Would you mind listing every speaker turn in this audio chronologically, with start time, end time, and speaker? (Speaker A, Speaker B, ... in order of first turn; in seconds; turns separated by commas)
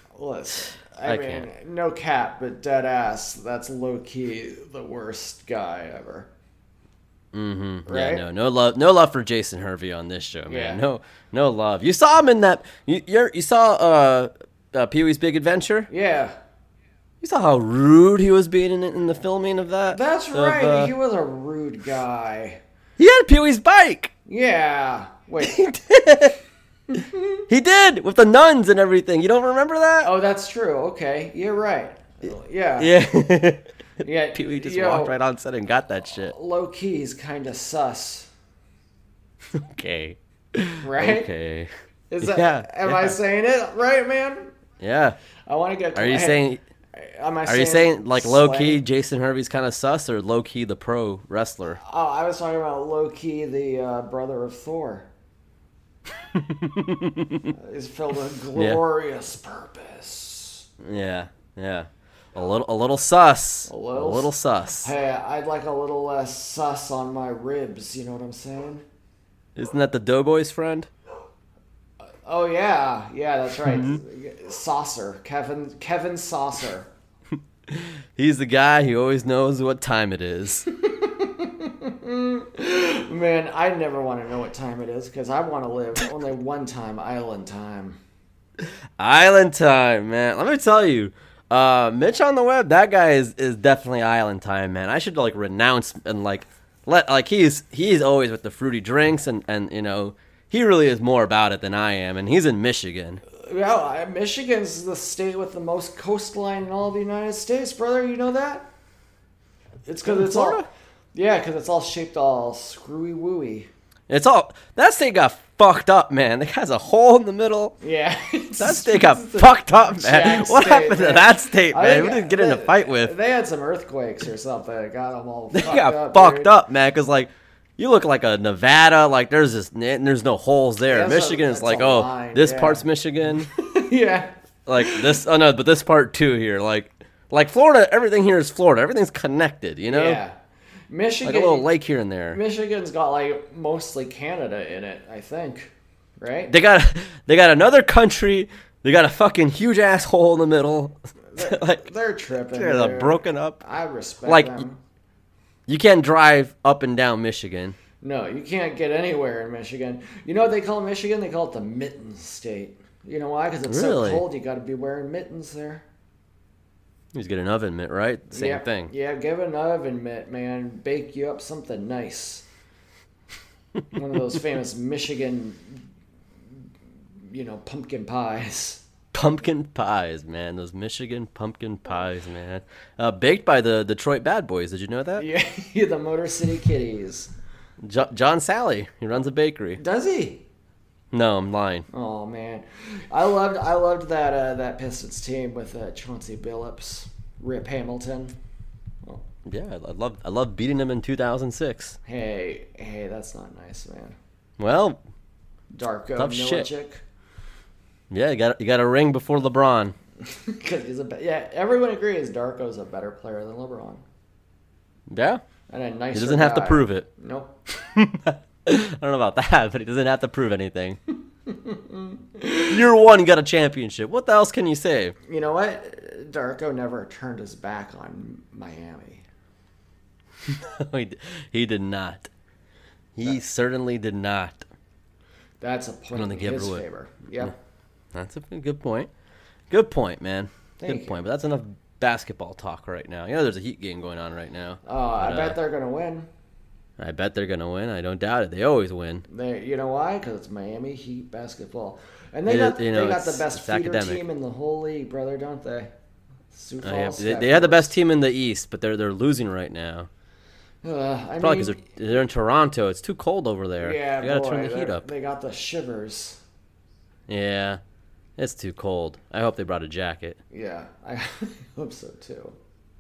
Speaker A: 0.1-6.3, Speaker B: 1.1-1.5, Speaker B: 7.3-15.9, Speaker A: 7.9-8.2, Speaker A: 10.5-10.8, Speaker A: 15.9-16.4, Speaker B: 17.2-20.9, Speaker A: 19.9-22.6, Speaker B: 23.0-24.1, Speaker A: 24.3-25.6, Speaker B: 25.4-26.4, Speaker A: 26.9-27.4, Speaker B: 27.5-30.1, Speaker A: 30.0-33.0, Speaker B: 32.8-33.7, Speaker A: 34.0-35.1, Speaker B: 34.3-36.4, Speaker A: 36.2-38.3, Speaker B: 39.5-41.7, Speaker A: 40.8-41.3, Speaker A: 42.1-44.5, Speaker B: 42.2-43.2, Speaker B: 44.8-45.2, Speaker A: 45.5-46.4, Speaker B: 46.0-46.6, Speaker A: 46.9-48.8, Speaker B: 47.5-51.8, Speaker A: 51.8-55.1, Speaker B: 56.3-57.5, Speaker A: 57.5-60.7, Speaker B: 58.6-58.8, Speaker B: 60.8-64.9, Speaker A: 63.7-68.8, Speaker B: 69.6-70.9, Speaker A: 72.2-76.9, Speaker B: 73.7-74.0, Speaker B: 77.7-80.7, Speaker A: 80.7-88.0, Speaker B: 88.6-103.2, Speaker A: 103.3-108.7, Speaker A: 109.9-113.7, Speaker B: 110.0-110.7, Speaker B: 114.1-117.8, Speaker A: 117.8-126.5, Speaker B: 118.6-123.2, Speaker B: 125.5-133.5, Speaker A: 130.9-132.9, Speaker A: 133.5-135.2, Speaker B: 134.7-140.2, Speaker A: 139.9-140.4, Speaker A: 140.9-141.7, Speaker B: 141.2-142.4, Speaker A: 142.3-146.6, Speaker B: 146.5-151.9, Speaker A: 151.3-154.8, Speaker B: 152.5-153.6, Speaker B: 154.2-154.7, Speaker B: 155.7-157.8, Speaker A: 158.0-165.8, Speaker B: 163.7-164.2, Speaker B: 167.1-168.9, Speaker A: 168.3-172.5, Speaker A: 173.9-175.8, Speaker A: 177.2-178.8, Speaker B: 179.1-185.3, Speaker A: 185.2-187.3, Speaker B: 187.8-189.8, Speaker A: 189.8-190.5, Speaker B: 191.1-191.9, Speaker A: 191.9-198.4, Speaker B: 199.5-202.0, Speaker A: 202.1-204.2, Speaker B: 204.6-205.0, Speaker A: 205.7-207.0, Speaker B: 206.2-206.7, Speaker B: 208.1-209.9, Speaker A: 210.2-214.0, Speaker B: 215.1-215.4, Speaker A: 215.7-217.5, Speaker B: 216.1-217.1, Speaker B: 217.7-221.0, Speaker A: 221.5-222.8, Speaker B: 222.7-225.2, Speaker A: 225.3-229.2, Speaker B: 230.4-232.3, Speaker B: 233.2-234.7, Speaker A: 235.6-237.6, Speaker B: 236.1-236.8, Speaker B: 238.1-239.1, Speaker B: 239.7-245.6, Speaker A: 240.8-241.2, Speaker A: 244.8-246.3, Speaker B: 247.0-249.2, Speaker A: 249.3-255.9, Speaker B: 252.5-254.2, Speaker A: 256.5-257.9, Speaker B: 256.8-260.1, Speaker A: 260.8-261.8, Speaker B: 261.4-265.1, Speaker A: 263.8-266.4, Speaker B: 267.3-267.8, Speaker B: 268.4-270.4, Speaker A: 270.5-272.6